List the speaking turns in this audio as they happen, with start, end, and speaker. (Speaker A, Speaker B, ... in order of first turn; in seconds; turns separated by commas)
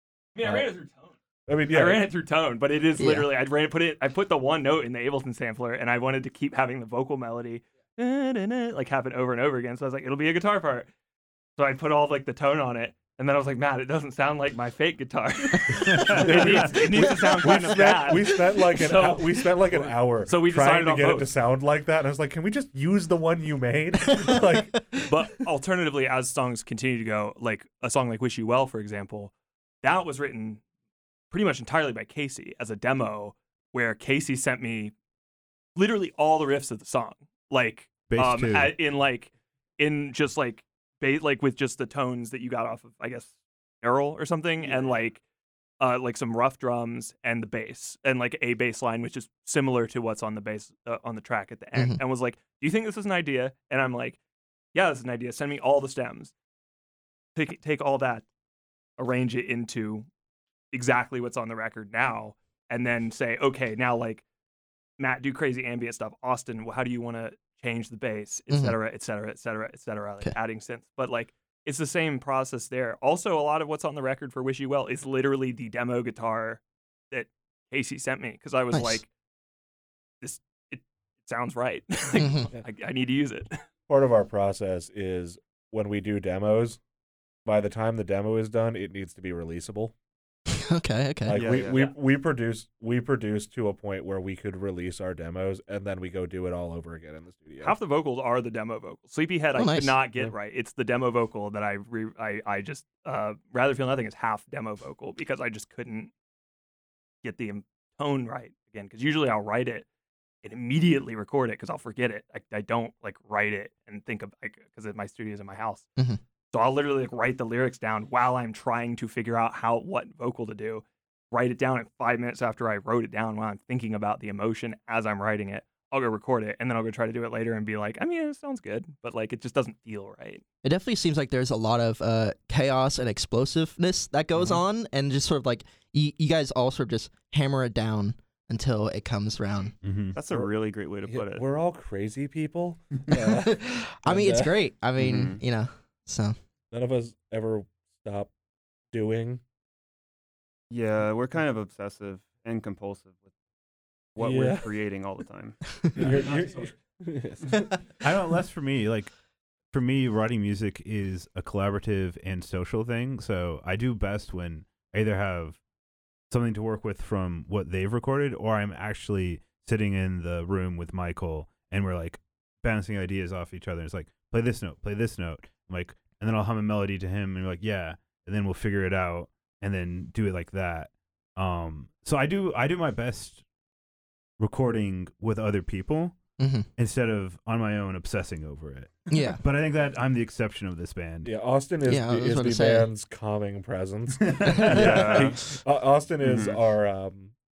Speaker A: 0.3-1.1, Speaker B: 0.4-0.7, Speaker B: 1.5-2.0, Speaker A: 1.7-10.9, Speaker C: 3.0-3.3, Speaker A: 11.6-21.3, Speaker D: 15.9-16.2, Speaker B: 16.1-24.8, Speaker C: 24.2-25.0, Speaker A: 25.1-30.6, Speaker A: 31.3-34.9, Speaker A: 35.7-45.2, Speaker D: 38.1-38.7, Speaker E: 44.6-44.9, Speaker A: 45.8-54.2, Speaker C: 51.7-52.0, Speaker A: 54.7-56.3, Speaker A: 57.3-58.2, Speaker A: 59.0-60.1, Speaker A: 60.7-64.2, Speaker A: 65.0-79.1, Speaker C: 68.5-68.8, Speaker C: 78.7-79.0, Speaker A: 80.2-83.6, Speaker C: 82.2-82.5, Speaker B: 83.9-86.8, Speaker B: 87.4-89.9, Speaker C: 90.5-91.4, Speaker B: 91.2-97.8, Speaker E: 91.3-91.8, Speaker A: 97.6-106.1, Speaker C: 99.5-100.0, Speaker A: 107.2-109.8, Speaker A: 110.4-115.9, Speaker A: 116.5-130.4, Speaker C: 130.6-139.7, Speaker D: 139.8-140.2, Speaker E: 140.1-141.4, Speaker B: 141.1-144.5, Speaker C: 143.2-146.3, Speaker E: 145.0-145.4, Speaker B: 146.7-148.3, Speaker B: 148.9-149.4, Speaker E: 150.7-153.3, Speaker E: 154.1-156.2, Speaker B: 154.2-154.7, Speaker B: 155.9-157.7, Speaker A: 156.0-156.7, Speaker D: 158.0-159.1, Speaker D: 159.7-165.6, Speaker D: 166.3-183.4, Speaker D: 184.4-186.2, Speaker C: 186.4-186.7, Speaker D: 186.8-191.3, Speaker C: 189.1-189.4, Speaker B: 191.2-197.3, Speaker C: 191.8-192.9, Speaker D: 194.3-195.2, Speaker C: 194.6-194.9, Speaker E: 194.7-195.5, Speaker E: 196.2-196.6